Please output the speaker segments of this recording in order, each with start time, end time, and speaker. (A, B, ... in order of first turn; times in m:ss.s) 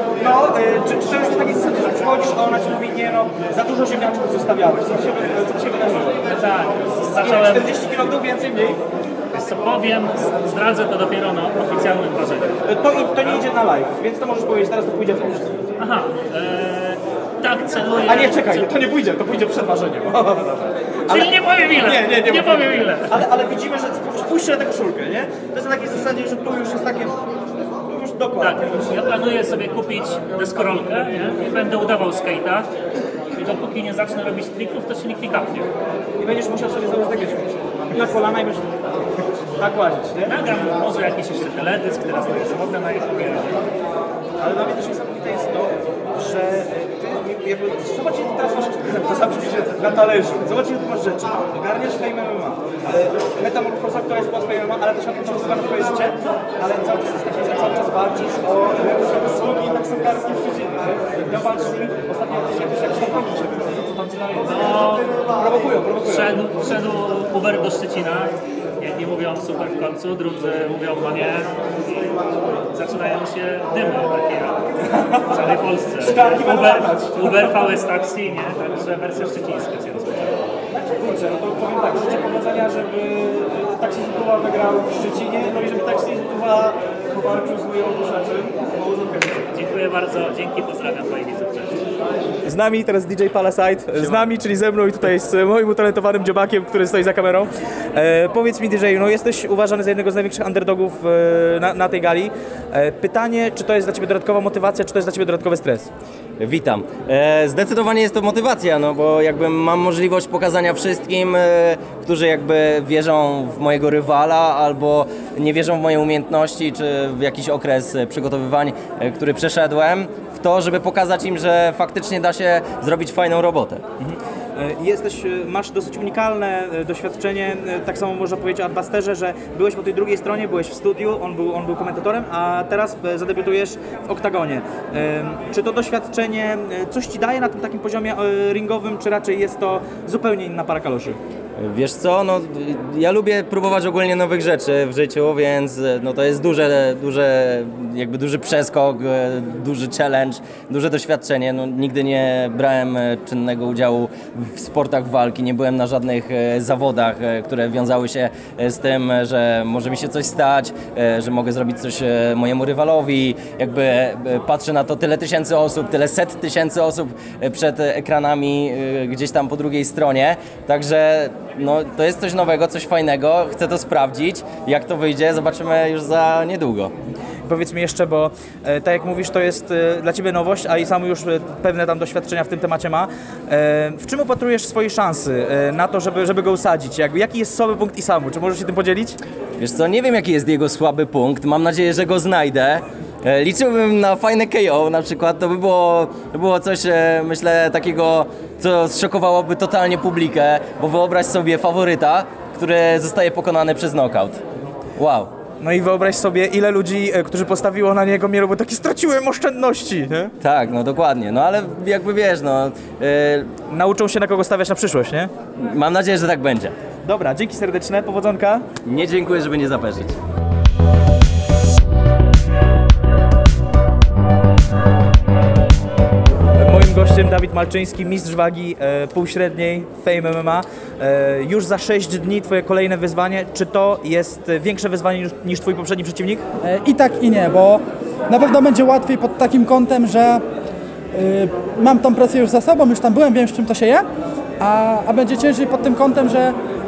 0:00.2-0:06.4 A
0:06.2-0:07.7 B
0:07.0-0:08.8 A
0:09.3-0:12.6 B
0:12.6-0:15.5 A
0:15.8-0:18.7 B
0:18.1-0:27.2 A
0:21.1-0:23.1 B
0:27.8-0:28.9 A
0:28.4-0:32.7 B
0:33.4-0:35.7 B
0:36.2-0:38.7 A
0:39.6-0:40.4 A
0:40.3-0:43.6 B
0:44.4-1:06.3 A
1:04.4-1:05.1 B
1:06.0-1:14.6 B
1:15.2-1:20.3 B
1:16.0-1:17.4 A
1:20.7-1:29.2 A
1:29.5-1:31.8 B
1:32.4-1:45.9 A
1:46.4-2:03.8 C
2:04.0-2:21.2 A
2:21.6-2:56.9 C
2:57.5-3:09.2 A
3:09.6-3:24.4 C
3:25.0-3:25.3 C
3:25.6-3:30.3 A
3:30.4-3:33.5 C
3:33.7-3:35.3 A
3:35.6-3:36.7 C
3:37.0-3:38.7 A
3:38.8-3:40.2 C
3:46.6-3:56.4 A
3:56.6-4:00.4 D
4:01.1-4:04.1 D
4:04.6-4:06.6 D